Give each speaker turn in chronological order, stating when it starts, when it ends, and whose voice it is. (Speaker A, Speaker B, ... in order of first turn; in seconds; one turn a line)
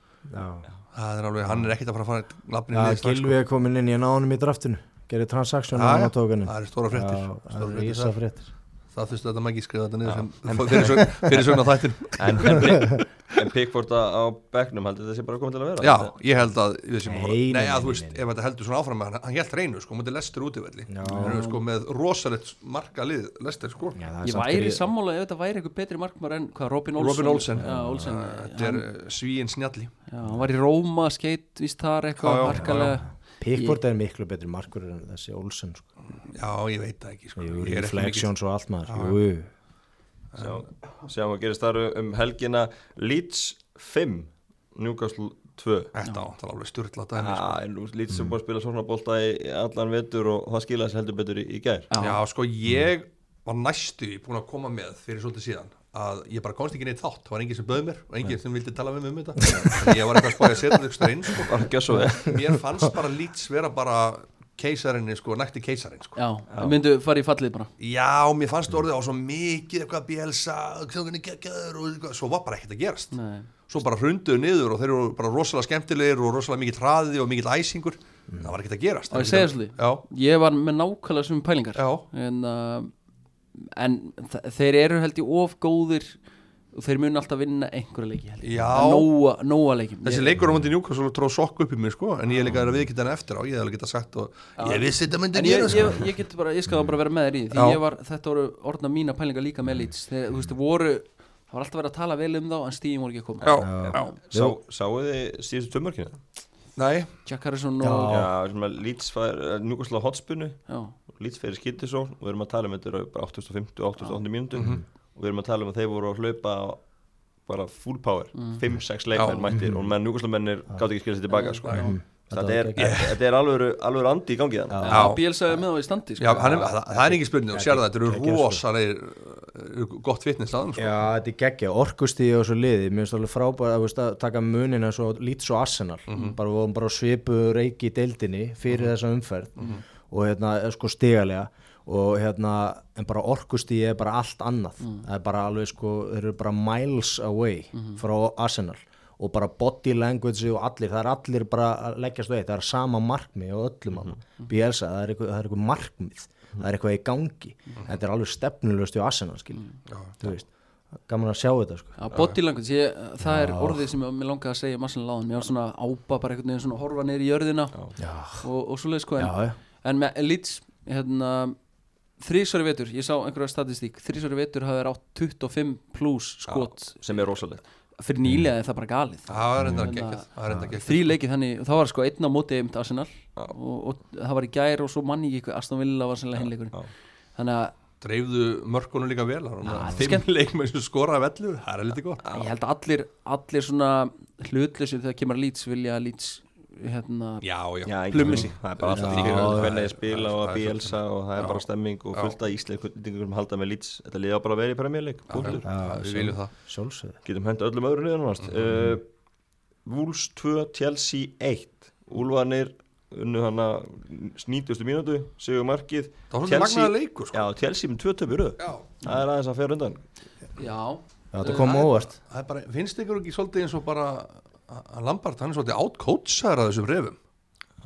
Speaker A: 0.3-0.7
Speaker B: 0.9-3.4
Speaker A: 2.7-8.5
Speaker B: 5.7-8.1
Speaker B: 8.9-13.5
Speaker C: 10.0-16.1
Speaker A: 12.6-13.0
Speaker B: 15.8-24.0
Speaker A: 17.0-18.2
Speaker A: 20.9-21.4
Speaker D: 21.0-21.6
Speaker A: 23.9-24.8
Speaker D: 24.2-28.9
Speaker B: 27.0-29.9
Speaker A: 27.6-28.1
Speaker D: 30.1-33.8
Speaker B: 32.2-33.0
Speaker A: 32.5-35.9
Speaker B: 36.3-38.3
Speaker A: 37.4-39.5
Speaker B: 38.8-39.2
Speaker B: 40.3-40.6
Speaker C: 40.4-45.9
Speaker B: 45.9-47.6
Speaker C: 47.1-51.9
Speaker D: 51.9-52.2
Speaker B: 52.0-61.6
Speaker C: 61.4-62.4
Speaker B: 62.2-66.2
Speaker D: 66.2-67.7
Speaker C: 66.5-66.8
Speaker B: 67.8-73.1
Speaker D: 73.1-73.5
Speaker B: 73.7-80.0
Speaker D: 79.1-82.9
Speaker B: 81.8-82.0
Speaker D: 83.6-86.2
Speaker D: 86.7-90.3
Speaker B: 88.4-89.1
Speaker B: 90.0-96.0
Speaker D: 92.3-92.5
Speaker D: 94.6-104.2
Speaker B: 97.5-97.8
Speaker B: 103.4-104.1
Speaker A: 103.5-104.5
Speaker C: 104.3-106.2
Speaker B: 106.8-107.1
Speaker D: 107.2-108.2
Speaker A: 107.8-108.3
Speaker C: 108.1-116.8
Speaker D: 110.7-110.9
Speaker B: 114.5-114.8
Speaker A: 114.5-114.8
Speaker C: 117.5-124.9
Speaker D: 118.3-118.6
Speaker B: 119.1-119.5
Speaker A: 119.5-119.9
Speaker D: 121.3-122.0
Speaker B: 121.6-121.9
Speaker A: 121.7-123.0
Speaker B: 122.8-123.2
Speaker A: 124.7-125.1
Speaker D: 124.8-126.6
Speaker B: 124.9-125.2
Speaker B: 126.2-130.9
Speaker A: 126.3-128.6
Speaker A: 130.8-160.5
Speaker B: 136.1-136.4
Speaker B: 138.7-138.9
Speaker B: 139.6-139.8
Speaker D: 144.8-145.1
Speaker D: 147.7-148.0
Speaker B: 159.9-160.2
Speaker A: 161.0-161.9
Speaker D: 162.0-167.8
Speaker B: 162.1-162.4
Speaker A: 163.2-163.9
Speaker A: 168.0-168.5
Speaker D: 168.4-171.6
Speaker A: 169.2-169.6
Speaker D: 172.2-177.4
Speaker C: 176.5-177.6
Speaker D: 178.0-186.8
Speaker B: 179.3-181.2
Speaker A: 179.6-179.9
Speaker C: 186.4-186.9
Speaker D: 187.3-187.7
Speaker B: 188.0-192.2
Speaker A: 189.7-190.1
Speaker D: 189.7-190.2
Speaker C: 192.2-192.5
Speaker D: 192.3-198.5
Speaker B: 197.4-202.3
Speaker C: 197.8-205.7
Speaker A: 198.9-199.7
Speaker B: 205.3-206.5
Speaker A: 205.6-207.2
Speaker C: 207.2-209.1
Speaker C: 209.8-220.0
Speaker B: 216.3-217.4
Speaker B: 218.6-218.9
Speaker D: 220.6-221.7
Speaker A: 221.3-222.1
Speaker B: 221.4-227.2